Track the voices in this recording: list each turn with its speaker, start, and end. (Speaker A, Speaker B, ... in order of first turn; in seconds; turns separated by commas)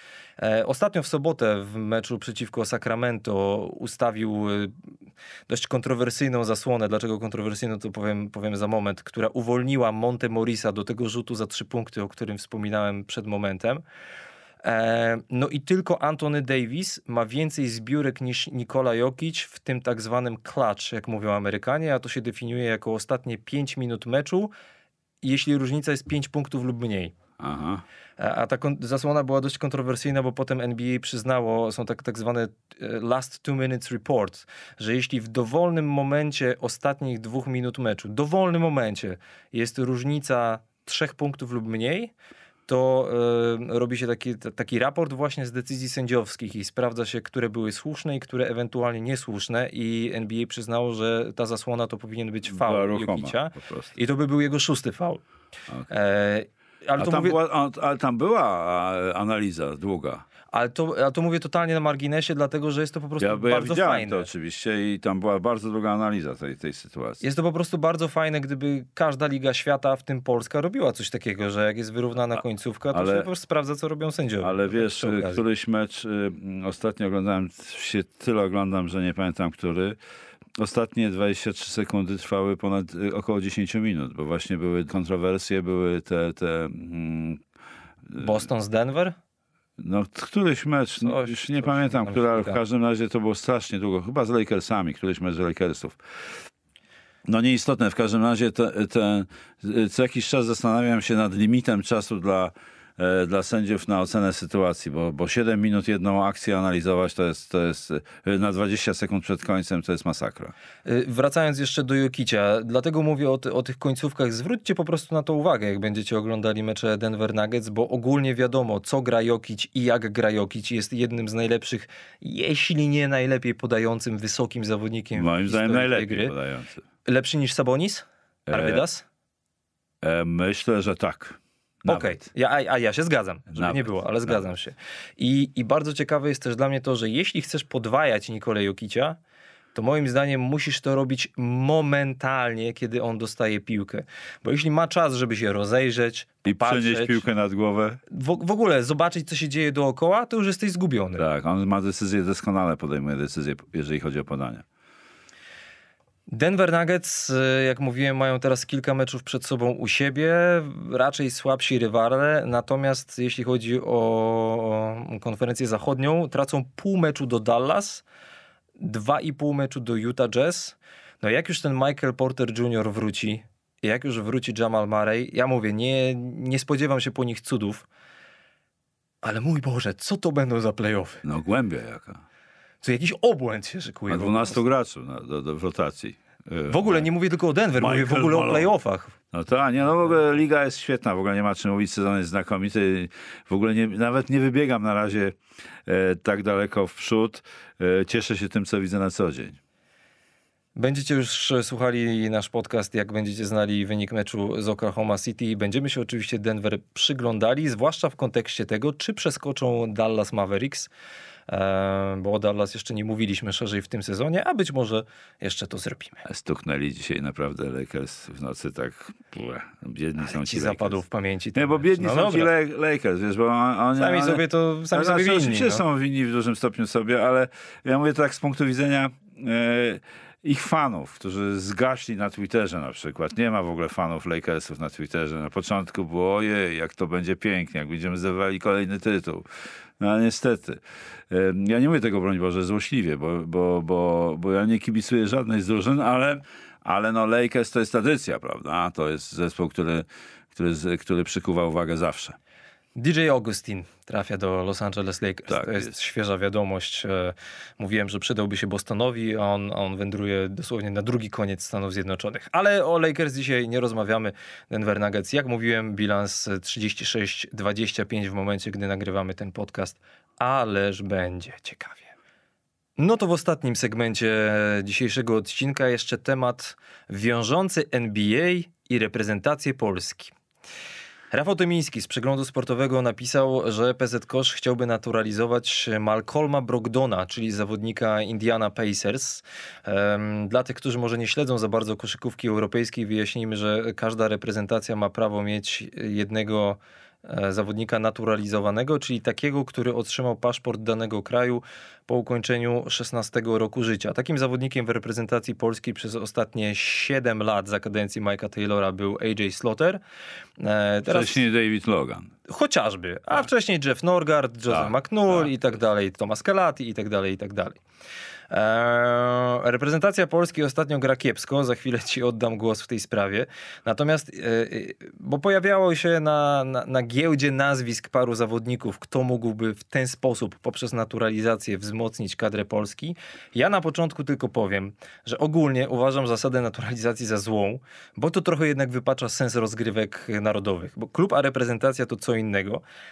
Speaker A: 0.4-4.7, Speaker A: 5.5-13.8, Speaker A: 14.6-24.5, Speaker A: 25.2-27.1, Speaker B: 27.4-27.8, Speaker A: 28.2-42.1, Speaker A: 42.7-55.2, Speaker B: 52.5-53.9, Speaker A: 55.9-57.4, Speaker B: 57.0-60.2, Speaker A: 60.5-64.3, Speaker B: 63.2-67.2, Speaker A: 67.2-75.4, Speaker B: 72.9-73.3, Speaker B: 74.4-80.0, Speaker B: 80.6-87.4, Speaker A: 88.2-89.1, Speaker B: 89.8-96.4, Speaker A: 91.0-92.6, Speaker B: 97.2-110.5, Speaker A: 110.8-126.3, Speaker B: 125.2-126.8, Speaker A: 127.0-129.0, Speaker B: 128.5-128.8, Speaker B: 130.0-132.2, Speaker A: 131.8-139.2, Speaker B: 133.5-134.5, Speaker A: 139.7-147.2, Speaker B: 146.4-148.0, Speaker A: 148.1-151.2, Speaker B: 151.2-154.6, Speaker A: 156.3-168.0, Speaker A: 168.8-177.8, Speaker A: 179.2-181.2, Speaker B: 181.2-182.2, Speaker A: 182.8-184.6, Speaker B: 184.1-187.1, Speaker A: 186.7-189.1, Speaker B: 187.8-188.7, Speaker B: 189.3-199.6, Speaker A: 200.8-210.9, Speaker A: 211.5-216.2, Speaker B: 216.2-221.0, Speaker A: 220.2-222.5, Speaker B: 221.5-239.4, Speaker A: 224.0-225.8, Speaker B: 240.0-252.4, Speaker A: 252.9-272.1, Speaker B: 255.5-255.9, Speaker A: 273.0-280.3, Speaker A: 281.3-310.0, Speaker A: 310.6-311.4, Speaker B: 311.0-312.3, Speaker A: 312.5-317.8, Speaker B: 314.7-315.5, Speaker A: 318.5-342.8